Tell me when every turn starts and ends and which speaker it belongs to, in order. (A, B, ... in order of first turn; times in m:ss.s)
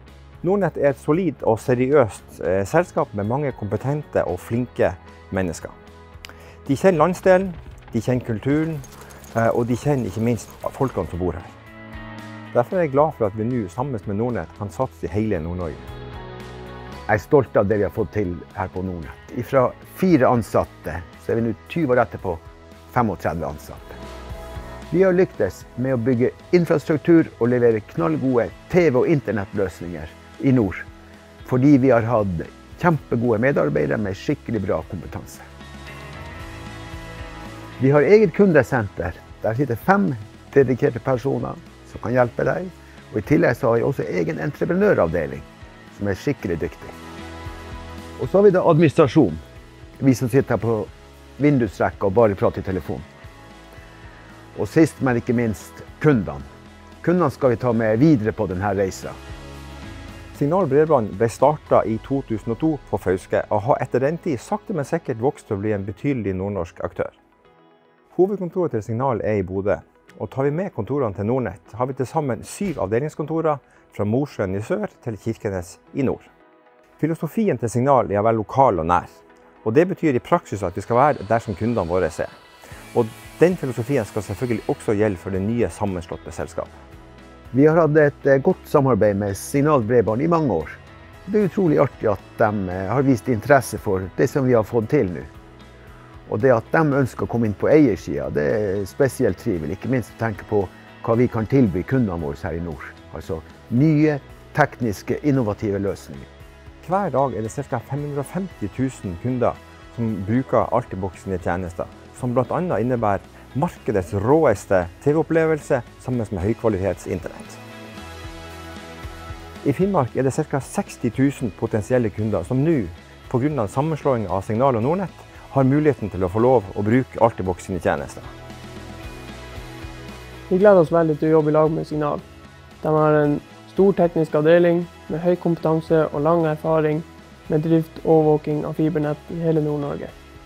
0:00.4-0:05.8 A
0:06.7-0:11.5 A
0:12.5-0:15.9 A
0:17.1-0:24.0 B
0:24.9-0:30.9 B
0:31.4-0:35.5 B
0:37.8-0:46.9 B
0:48.2-0:49.4 B
0:50.0-0:53.1 B
0:54.6-0:56.4 B
0:57.0-0:59.2 B
1:00.3-1:07.2 A
1:08.1-1:16.3 A
1:17.0-1:22.3 A
1:22.9-1:26.8 A
1:27.5-1:35.3 B
1:36.3-1:46.3 B
1:46.8-1:57.6 A
1:59.6-2:08.3 A
2:10.5-2:12.2 C
2:12.8-2:20.2 C